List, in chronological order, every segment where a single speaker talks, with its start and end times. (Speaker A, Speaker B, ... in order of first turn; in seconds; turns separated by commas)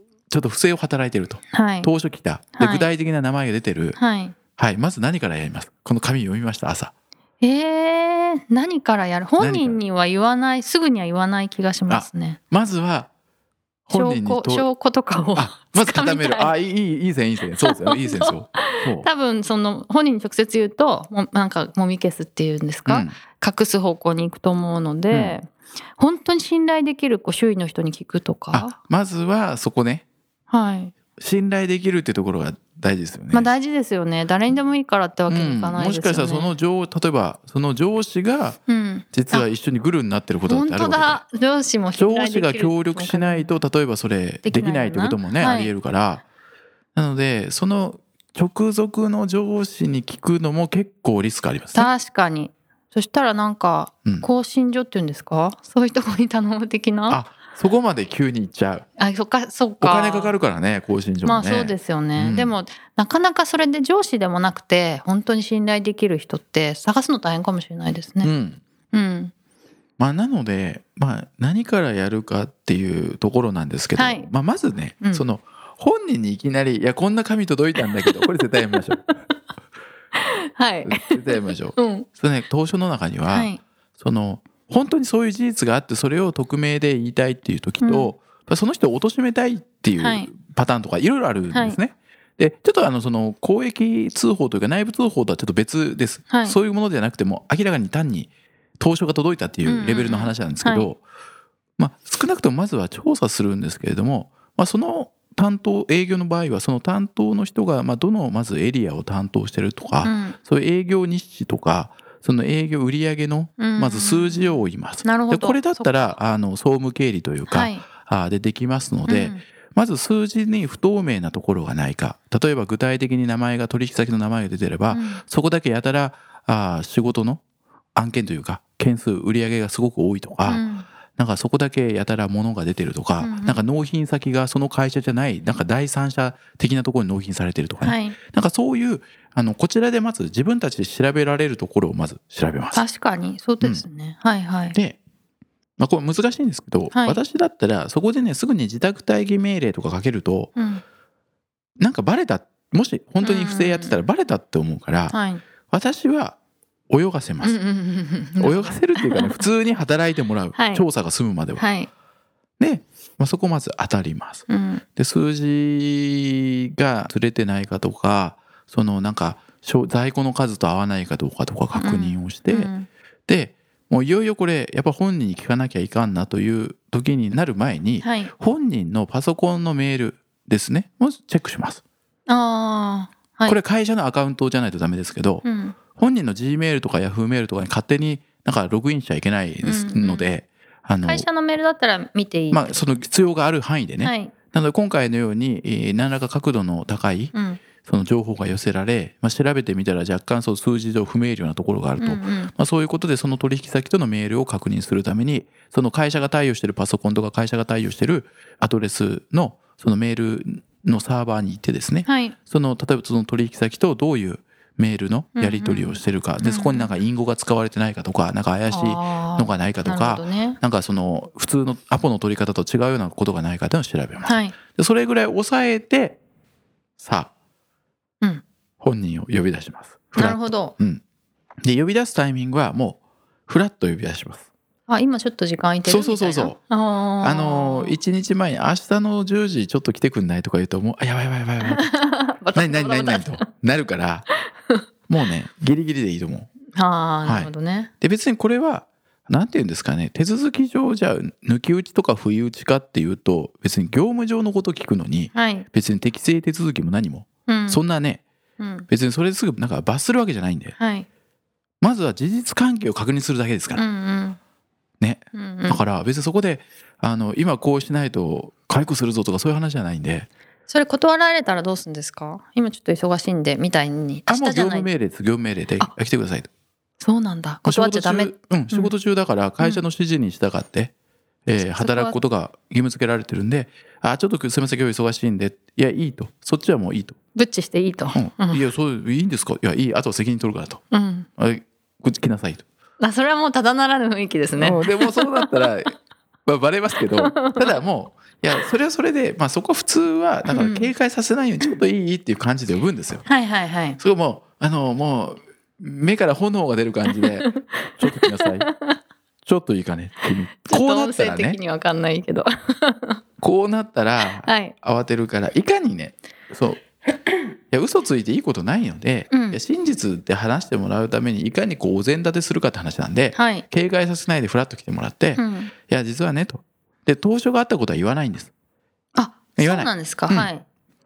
Speaker A: 0.3-4.0, Speaker B: 1.5-1.9, Speaker B: 2.6-2.9, Speaker B: 4.0-4.4, Speaker A: 4.6-6.9, Speaker B: 7.4-12.4, Speaker A: 9.4-9.8, Speaker A: 11.9-13.1, Speaker A: 13.9-14.7, Speaker B: 13.9-16.5, Speaker A: 15.3-19.1, Speaker B: 17.6-28.8, Speaker A: 22.9-23.2, Speaker A: 28.5-30.1, Speaker B: 30.5-30.9, Speaker A: 31.2-33.5, Speaker B: 33.3-36.5, Speaker A: 35.3-38.6, Speaker B: 38.7-39.5, Speaker A: 39.1-41.2, Speaker B: 40.5-43.5, Speaker A: 42.0-46.2, Speaker B: 44.5-45.7, Speaker A: 47.0-51.9, Speaker B: 51.8-57.2, Speaker A: 57.1-58.9, Speaker B: 59.0-60.3, Speaker A: 59.8-62.5, Speaker B: 61.2-68.3, Speaker A: 68.2-68.6, Speaker B: 68.9-69.3, Speaker A: 70.0-79.0, Speaker B: 74.0-74.3, Speaker B: 77.8-78.2, Speaker B: 80.2-82.1, Speaker A: 80.8-101.0, Speaker B: 83.3-83.6, Speaker B: 87.8-88.1, Speaker B: 90.0-90.3, Speaker B: 91.5-91.8, Speaker B: 96.3-96.6, Speaker B: 99.7-100.9, Speaker A: 101.8-127.4, Speaker B: 110.0-110.4, Speaker B: 113.6-116.2, Speaker B: 117.5-117.9, Speaker B: 119.1-119.4, Speaker B: 124.9-125.2, Speaker A: 128.0-130.6, Speaker B: 130.5-130.9, Speaker A: 131.2-142.8, Speaker B: 133.2-133.6, Speaker B: 137.8-138.2, Speaker B: 142.7-144.8, Speaker A: 145.8-150.5, Speaker B: 146.9-147.2, Speaker B: 150.6-150.8, Speaker A: 151.8-155.2, Speaker B: 153.2-154.0, Speaker B: 155.1-155.4, Speaker A: 155.7-156.4, Speaker A: 156.9-157.6, Speaker B: 157.4-159.4, Speaker A: 158.4-161.6, Speaker B: 160.6-160.9, Speaker B: 161.6-161.9, Speaker A: 162.6-164.4, Speaker B: 164.5-164.8, Speaker A: 165.0-172.7, Speaker B: 171.8-172.9, Speaker A: 173.3-181.8, Speaker B: 178.0-178.3, Speaker B: 182.3-183.6, Speaker A: 183.5-191.3, Speaker B: 185.4-185.8, Speaker B: 189.6-190.3, Speaker B: 191.1-192.8, Speaker A: 192.5-226.2, Speaker B: 194.0-194.3, Speaker B: 197.3-197.6, Speaker B: 202.0-202.5, Speaker B: 212.1-212.4, Speaker B: 215.4-216.9, Speaker B: 218.7-220.6, Speaker B: 224.3-224.6, Speaker A: 227.0-227.3, Speaker A: 228.8-231.0, Speaker B: 230.2-230.7, Speaker A: 231.6-234.5, Speaker B: 234.9-238.0, Speaker A: 235.9-236.6, Speaker A: 237.2-241.9, Speaker B: 241.7-243.4, Speaker A: 242.6-244.3, Speaker A: 245.1-246.5, Speaker B: 246.8-247.9, Speaker A: 247.2-258.2, Speaker B: 255.3-255.7, Speaker B: 257.5-257.8, Speaker B: 258.6-258.9, Speaker A: 258.9-260.8, Speaker B: 260.8-261.1, Speaker A: 261.8-263.8, Speaker B: 263.8-264.4, Speaker A: 265.0-270.3, Speaker B: 265.3-265.9, Speaker B: 270.7-274.9, Speaker A: 274.3-276.5, Speaker B: 277.0-278.9, Speaker A: 277.6-280.9, Speaker A: 281.5-287.2, Speaker B: 281.6-282.2, Speaker B: 287.4-288.6, Speaker A: 288.1-290.8, Speaker B: 290.9-291.3, Speaker A: 291.4-292.6, Speaker B: 293.0-295.7, Speaker A: 294.6-303.2, Speaker B: 297.1-297.8, Speaker B: 300.5-300.9, Speaker B: 303.3-304.0, Speaker A: 304.0-308.7, Speaker B: 307.2-309.0, Speaker A: 309.4-311.6, Speaker B: 310.7-313.2, Speaker A: 313.4-316.8, Speaker B: 314.3-314.7, Speaker A: 317.7-328.5, Speaker B: 319.3-319.6, Speaker B: 323.4-323.6, Speaker B: 325.4-325.7, Speaker B: 329.1-330.6, Speaker A: 329.6-330.5